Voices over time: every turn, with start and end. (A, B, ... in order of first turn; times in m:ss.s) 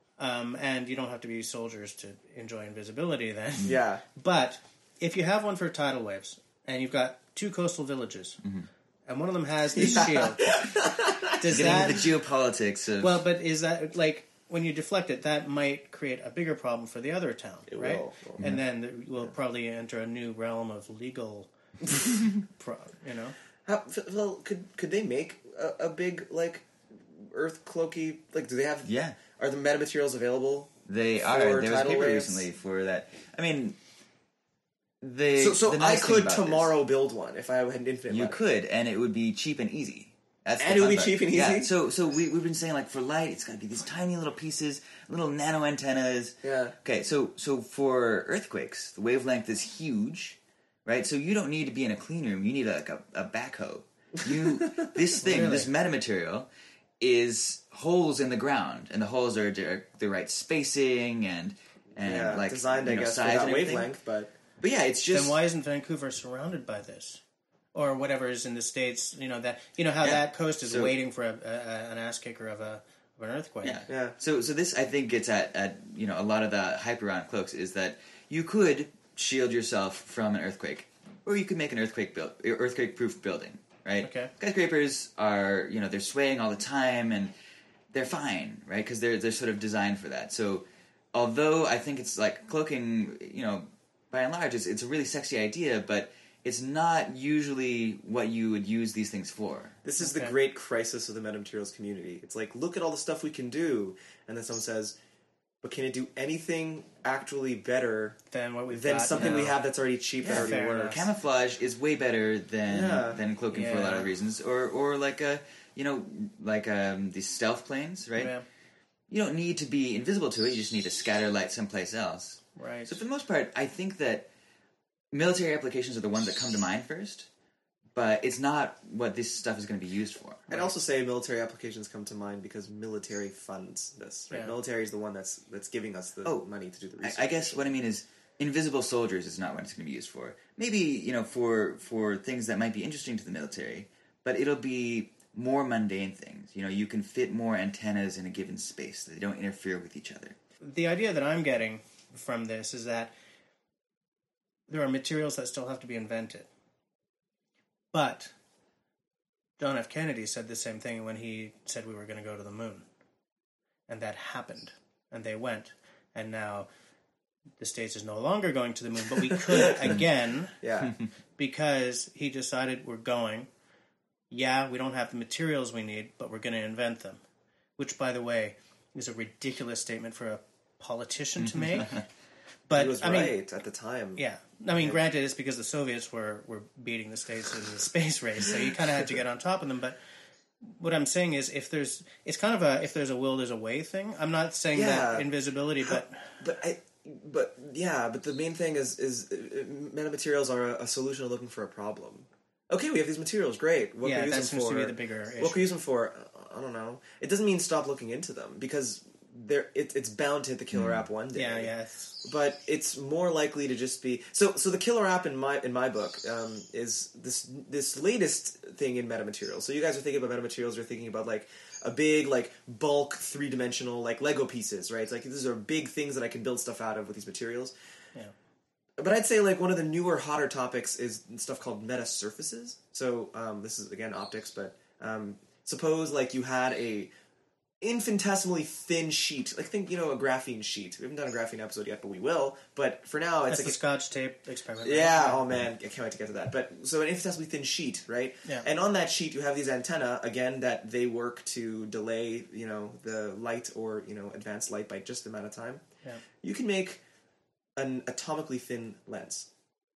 0:00.2-0:08.4 A
0:03.6-0:04.0 B
0:09.1-0:10.6 A
0:10.0-0:10.6 C
0:10.5-0:11.8 B
0:11.4-0:12.1 A
0:11.4-0:13.2 C
0:13.0-0:21.5 A
0:17.7-0:18.5 B
0:22.6-0:23.4 A
0:23.6-0:32.5 B
0:28.8-0:29.2 C
0:30.9-0:33.8 C
0:35.0-0:36.7 C
0:35.4-0:38.4 B
0:38.1-0:56.5 C
0:40.6-0:41.7 B
0:46.4-0:46.8 B
0:55.2-0:55.7 A
0:57.0-1:03.9 C
1:02.0-1:04.3 B
1:04.6-1:05.4 C
1:05.1-1:07.2 A
1:07.7-1:13.8 A
1:10.0-1:10.9 C
1:13.6-1:27.3 C
1:13.9-1:14.2 B
1:24.0-1:24.3 A
1:27.9-1:39.8 C
1:39.8-1:45.0 B
1:40.0-1:40.3 A
1:45.6-1:48.2 B
1:48.3-1:49.6 A
1:48.7-1:51.0 B
1:49.1-1:49.5 C
1:50.2-1:58.4 C
1:50.2-1:51.0 A
1:52.7-1:53.2 B
1:53.5-1:54.1 A
1:58.2-1:58.4 A
1:59.1-2:04.3 C
2:02.6-2:03.0 A
2:05.1-2:07.3 C
2:07.9-2:10.5 C
2:10.5-2:17.7 B
2:17.0-2:30.4 C
2:30.6-2:33.1 A
2:34.7-2:36.5 A
2:37.9-2:38.3 A
2:39.6-2:42.8 A
2:43.9-2:46.7 A
2:47.6-2:50.6 A
2:49.5-2:49.8 B
2:50.6-2:50.9 B
2:51.4-2:53.5 A
2:54.3-2:57.2 A
2:57.8-3:02.0 A
3:01.4-3:02.0 C
3:02.7-3:03.4 A
3:02.7-3:04.2 B
3:04.2-3:10.0 A
3:10.6-3:16.3 A
3:14.7-3:15.3 B
3:15.8-3:31.7 B
3:24.0-3:25.7 A
3:30.7-3:31.0 C
3:31.3-3:32.2 A
3:32.2-3:47.7 B
3:49.0-3:57.1 B
3:57.8-4:03.8 B
4:03.5-4:05.4 A
4:04.8-4:15.8 B
4:16.4-4:17.0 B
4:17.8-4:19.5 B